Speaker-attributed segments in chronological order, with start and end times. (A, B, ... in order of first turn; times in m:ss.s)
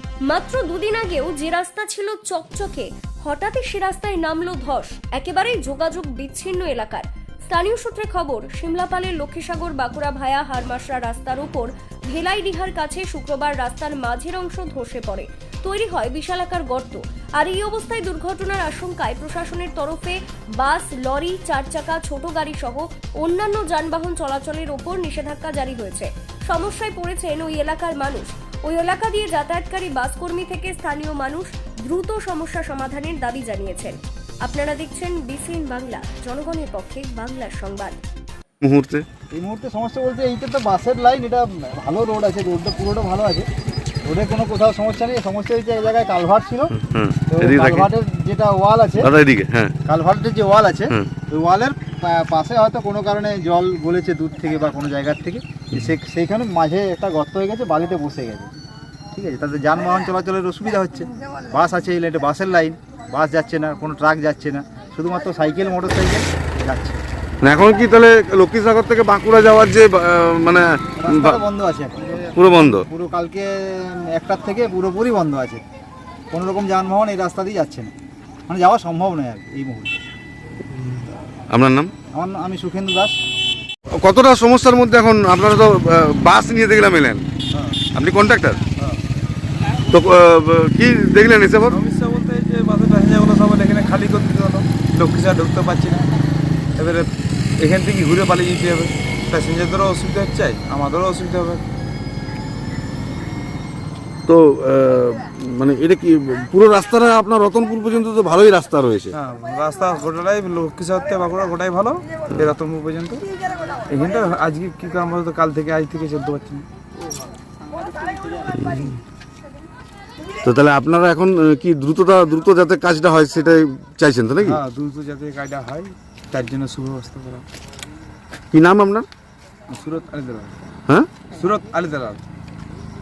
0:00.2-0:38.0 A
0:38.6-0:39.0 B
0:39.3-0:43.5 C
0:44.0-0:46.7 C
0:46.7-0:47.9 B
0:47.3-0:49.1 C
0:49.0-0:49.7 B
0:49.8-0:58.5 C
0:59.1-1:07.0 C
1:07.4-1:11.4 B
1:11.0-1:15.6 C
1:12.3-1:12.8 B
1:16.3-1:17.9 C
1:18.5-1:19.9 C
1:21.5-1:21.9 B
1:22.1-1:23.1 C
1:24.0-1:27.2 B
1:27.9-1:28.6 B
1:29.9-1:31.8 B
1:31.8-1:35.1 C
1:32.0-1:36.0 D
1:36.8-1:37.0 D
1:37.6-1:41.6 D
1:41.3-1:41.6 C
1:44.3-1:49.1 B
1:49.2-1:52.0 D
1:49.6-1:49.9 C
1:51.1-1:53.1 C
1:52.7-1:53.2 D
1:53.9-1:56.6 D
1:58.5-1:59.0 B
2:00.4-2:04.6 B
2:04.4-2:07.4 D
2:07.1-2:07.4 C
2:08.5-2:09.1 B
2:09.7-2:10.4 D
2:09.8-2:10.5 C
2:10.9-2:11.2 B
2:11.4-2:12.2 D